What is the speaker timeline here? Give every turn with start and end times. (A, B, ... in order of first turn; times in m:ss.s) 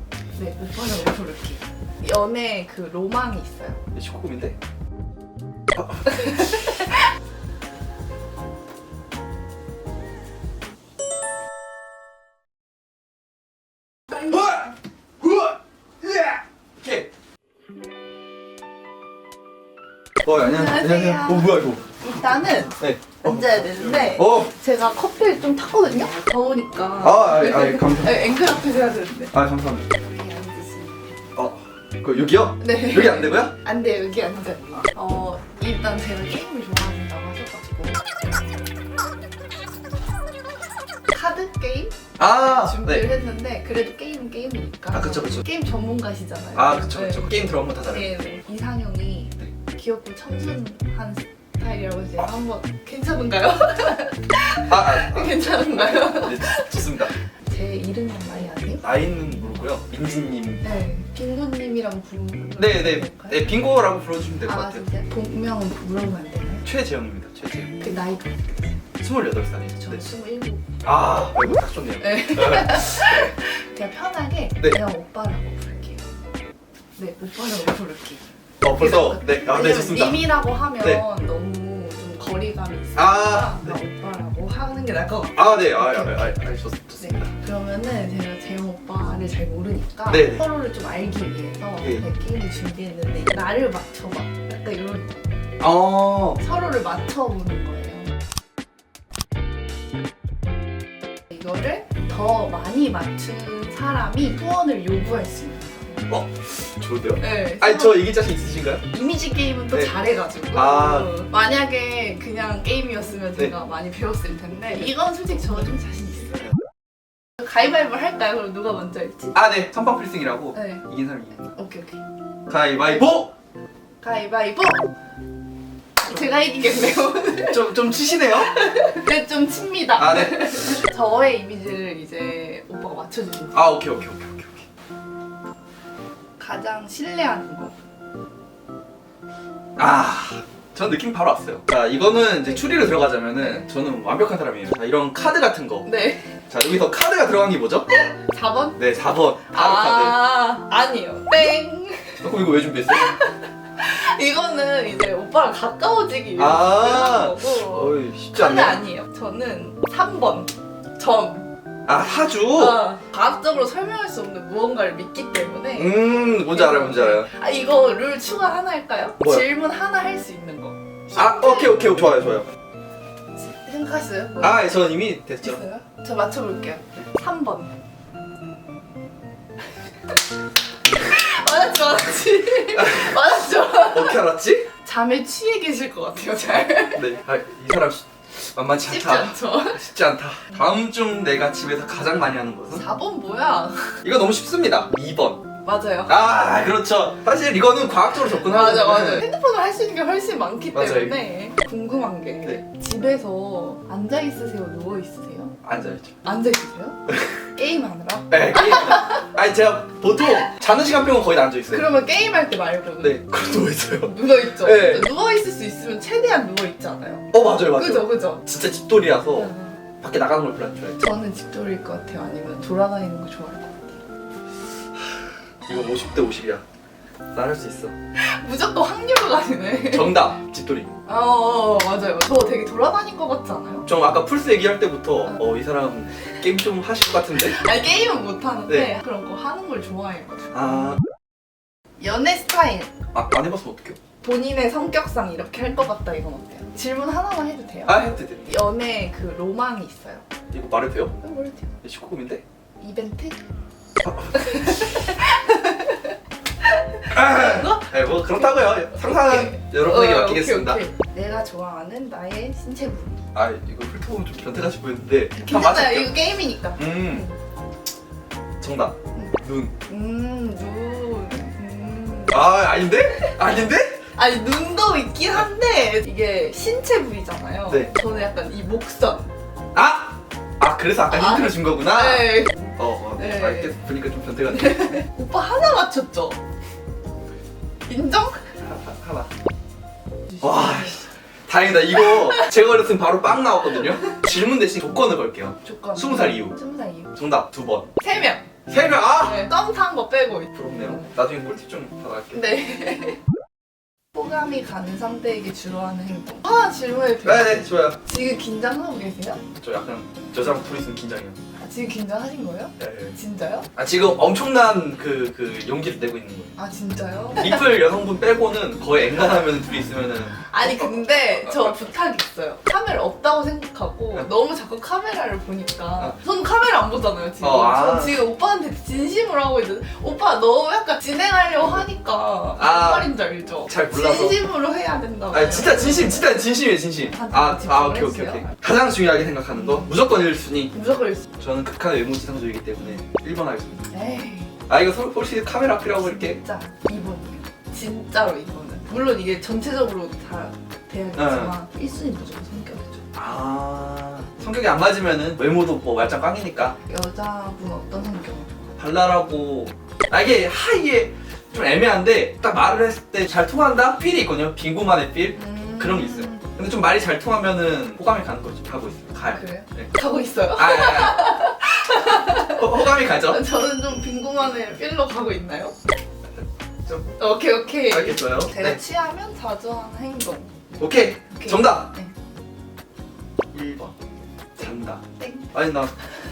0:00.4-0:03.8 A
0:03.9-0:04.6 B
0:05.8-0:06.0 B
0:06.0-0:07.1 A
0:14.2-0:17.1 B
0:20.2-0:21.8 B
0:20.4-0:29.3 A
0:22.8-0:24.5 B
0:27.0-0:28.3 B
0:29.3-0:29.8 B
0:29.9-0:31.3 A
0:31.4-0:33.5 B
0:32.6-0:38.0 A
0:41.1-0:59.2 A
0:42.2-0:43.0 B
0:44.9-0:45.4 B
0:46.5-0:48.1 B
0:54.7-0:57.1 B
0:58.8-1:00.6 B
1:00.6-1:03.5 A
1:02.6-1:04.8 B
1:04.4-1:06.6 A
1:06.6-1:07.8 B
1:07.8-1:08.8 A
1:09.0-1:10.1 B
1:09.7-1:10.6 A
1:10.8-1:13.3 B
1:12.0-1:16.1 A
1:17.0-1:26.3 A
1:18.6-1:20.2 B
1:23.0-1:23.8 B
1:25.4-1:27.3 B
1:27.0-1:35.2 A
1:30.1-1:30.4 B
1:35.6-1:36.4 B
1:36.4-1:38.1 A
1:41.3-1:46.0 A
1:46.1-1:48.8 B
1:47.2-1:48.1 A
1:48.9-1:56.4 A
1:50.5-1:51.1 B
1:57.4-1:59.3 A
1:59.3-2:01.5 B
2:00.5-2:00.8 A
2:01.5-2:02.0 A
2:02.5-2:03.3 B
2:04.0-2:04.9 A
2:06.0-2:07.7 A
2:07.3-2:08.5 B
2:08.3-2:13.8 A
2:10.0-2:10.8 B
2:13.5-2:14.6 B
2:16.4-2:17.7 A
2:19.8-2:25.9 B
2:25.8-2:26.4 A
2:26.5-2:27.9 B
2:28.0-2:28.8 A
2:28.8-2:30.3 B
2:29.5-2:32.2 A
2:32.2-2:33.1 B
2:32.9-2:41.5 A
2:36.4-2:38.8 B
2:41.9-2:42.8 B
2:42.5-2:51.8 A
2:45.8-2:47.3 B
2:49.2-2:49.4 B
2:51.1-2:52.5 B
2:53.4-2:54.7 A
2:54.4-2:55.6 B
2:55.4-2:57.7 A
3:00.9-3:04.2 A
3:02.8-3:03.1 B
3:03.9-3:04.7 B
3:04.8-3:07.0 A
3:06.9-3:12.8 B
3:08.8-3:09.8 A
3:12.7-3:14.0 A
3:14.0-3:15.4 B
3:15.6-3:16.1 A
3:16.1-3:19.3 B
3:18.2-3:25.5 A
3:20.7-3:21.2 B
3:25.6-3:26.1 B
3:26.2-3:29.3 A
3:28.3-3:31.9 B
3:31.7-3:33.2 A
3:33.0-3:35.1 B
3:34.0-3:38.4 A
3:37.3-3:41.0 B
3:39.3-3:39.8 A
3:41.0-3:43.9 A
3:45.7-3:46.6 B
3:47.3-3:47.9 B
3:48.2-3:50.2 A
3:49.9-3:50.9 B
3:51.1-3:53.9 A
3:53.8-3:57.6 B
3:57.4-4:00.8 A
4:00.5-4:01.0 B
4:02.0-4:02.9 A
4:03.1-4:04.0 B
4:04.2-4:10.2 A
4:07.8-4:08.6 B
4:10.5-4:11.1 B
4:11.2-4:11.7 A
4:11.8-4:12.4 B
4:12.8-4:13.4 A
4:14.0-4:14.6 B
4:14.3-4:16.1 A
4:16.6-4:17.9 A
4:17.1-4:20.8 B
4:18.4-4:23.2 A
4:23.3-4:26.1 B
4:25.3-4:27.3 A
4:26.8-4:27.2 B
4:28.6-4:29.7 B
4:29.1-4:33.4 A
4:32.3-4:34.0 B
4:34.1-4:39.3 A
4:39.7-4:44.9 B
4:41.1-4:43.7 A
4:44.5-4:46.4 A
4:47.9-4:48.5 A
4:48.6-4:49.3 B
4:50.3-4:51.0 A
4:50.4-4:56.5 B
4:55.6-4:57.1 A
4:57.2-4:57.9 B
4:58.0-4:58.5 A
4:58.7-4:59.5 B
4:59.2-5:01.1 A
5:00.5-5:02.5 B
5:02.3-5:03.2 A
5:04.1-5:09.4 A
5:07.2-5:08.0 B
5:09.6-5:11.4 B
5:11.6-5:13.7 A
5:12.8-5:13.1 B
5:13.7-5:16.5 B
5:16.6-5:17.6 A
5:17.4-5:21.7 B
5:20.5-5:36.3 A
5:27.4-5:28.2 B
5:32.6-5:33.1 B
5:33.6-5:34.4 B
5:35.3-5:40.7 B
5:37.1-5:38.5 A
5:39.5-5:39.9 A
5:40.7-5:41.3 A
5:41.4-5:43.8 B
5:43.9-5:44.5 A
5:44.7-5:46.4 B
5:46.0-5:53.0 A
5:51.2-5:51.5 B
5:53.1-5:56.8 B
5:56.8-5:58.8 A
5:58.8-6:09.9 B
6:05.3-6:06.5 A
6:09.3-6:15.7 A
6:10.6-6:11.3 B
6:12.5-6:13.4 B
6:16.8-6:17.2 B
6:17.2-6:20.5 A
6:17.9-6:18.8 B
6:20.8-6:21.9 B
6:21.3-6:22.1 A
6:23.5-6:23.9 B
6:24.6-6:25.9 B
6:25.2-6:25.5 A